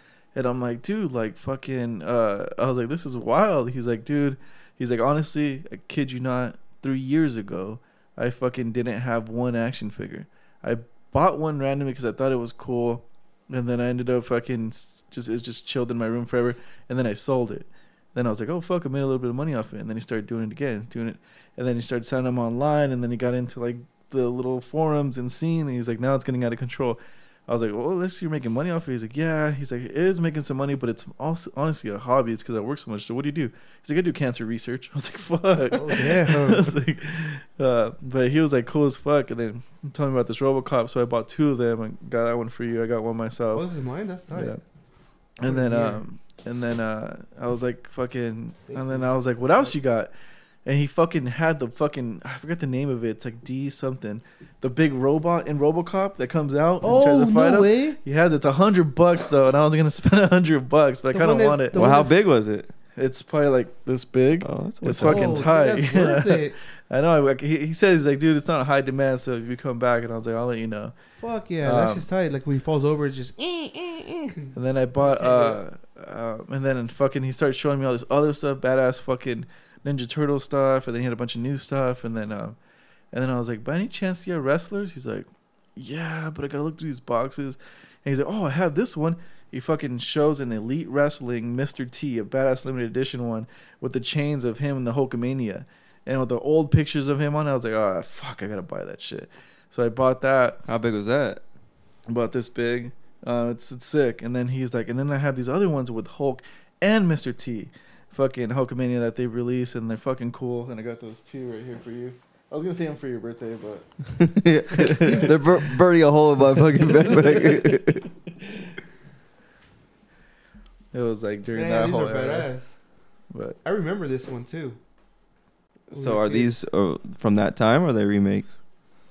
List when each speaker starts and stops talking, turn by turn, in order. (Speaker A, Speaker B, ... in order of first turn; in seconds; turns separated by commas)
Speaker A: 0.3-43.7, Speaker B: 35.7-36.8, Speaker B: 43.5-44.6, Speaker A: 44.3-44.6, Speaker A: 45.4-50.1, Speaker B: 45.4-46.0, Speaker B: 48.7-49.7, Speaker A: 50.6-61.9, Speaker B: 56.8-58.0, Speaker B: 61.1-62.1, Speaker C: 61.7-62.7, Speaker A: 63.0-70.9, Speaker C: 64.4-65.4, Speaker B: 64.9-66.6, Speaker B: 71.2-75.6, Speaker A: 71.6-72.1, Speaker A: 74.5-82.6, Speaker A: 83.1-100.6, Speaker C: 100.7-101.4, Speaker A: 102.1-115.4, Speaker C: 114.2-118.1, Speaker B: 115.1-115.3, Speaker A: 116.8-118.6, Speaker A: 120.9-122.5, Speaker B: 121.5-122.8, Speaker B: 123.6-124.8, Speaker C: 125.9-128.6, Speaker B: 125.9-126.5